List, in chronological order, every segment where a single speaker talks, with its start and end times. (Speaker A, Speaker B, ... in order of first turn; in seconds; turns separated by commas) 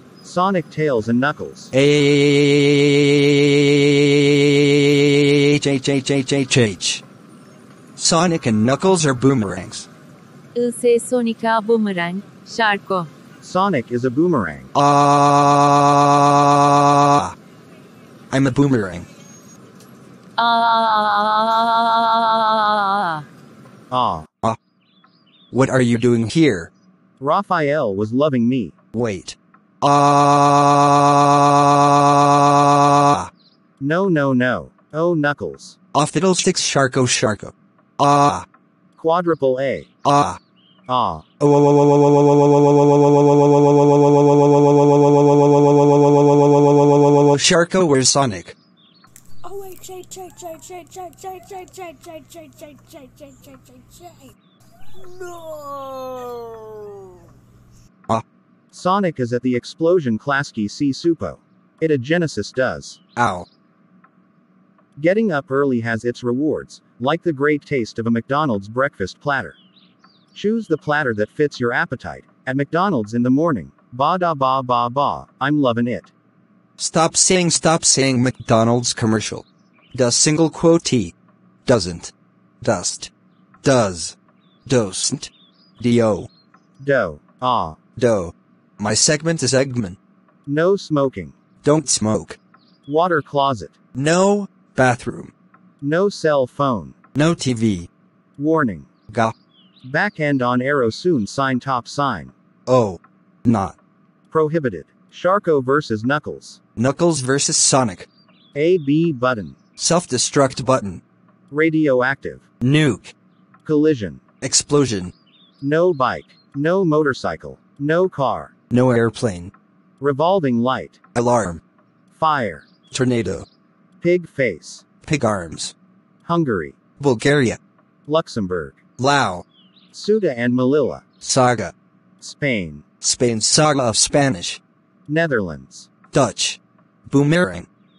Speaker A: 0.2-1.7, Speaker B: 1.7-7.0, Speaker B: 8.0-9.9, Speaker C: 10.5-13.1, Speaker A: 13.4-14.7, Speaker B: 14.7-17.3, Speaker B: 18.3-19.1, Speaker C: 20.4-23.2, Speaker A: 23.9-24.3, Speaker B: 25.5-26.7, Speaker A: 27.2-28.7, Speaker B: 28.9-33.3, Speaker A: 33.8-35.8, Speaker B: 35.9-38.5, Speaker A: 39.0-39.9, Speaker B: 40.0-40.4, Speaker A: 40.9-41.2, Speaker B: 41.4-41.8, Speaker D: 43.3-46.4, Speaker B: 47.3-48.5, Speaker D: 49.4-54.3, Speaker D: 55.0-57.1, Speaker A: 58.7-63.0, Speaker B: 63.1-63.5, Speaker A: 65.0-69.6, Speaker A: 70.3-76.1, Speaker B: 76.8-81.1, Speaker B: 81.7-83.1, Speaker B: 83.6-86.3, Speaker A: 86.8-87.8, Speaker B: 88.0-90.0, Speaker A: 90.5-91.4, Speaker B: 91.6-92.4, Speaker A: 92.8-93.8, Speaker B: 93.9-95.3, Speaker A: 95.8-97.0, Speaker B: 97.1-97.9, Speaker A: 98.4-98.9, Speaker B: 99.1-99.3, Speaker A: 99.8-102.3, Speaker B: 102.7-103.7, Speaker A: 104.3-106.6, Speaker B: 106.8-108.1, Speaker A: 108.5-109.6, Speaker B: 109.8-111.0, Speaker A: 111.5-112.4, Speaker B: 112.6-113.1, Speaker A: 113.6-114.2, Speaker B: 114.4-115.1, Speaker A: 115.6-118.5, Speaker B: 118.7-119.5, Speaker A: 120.0-121.0, Speaker B: 121.1-121.6, Speaker A: 122.1-122.7, Speaker B: 122.9-123.4, Speaker A: 124.0-124.8, Speaker B: 125.0-125.7, Speaker A: 126.2-126.8, Speaker B: 127.0-127.6, Speaker A: 128.1-128.8, Speaker B: 129.0-129.4, Speaker A: 129.9-131.0, Speaker B: 131.2-131.7, Speaker A: 132.2-132.8, Speaker B: 133.0-134.6, Speaker A: 135.1-135.9, Speaker B: 136.1-137.7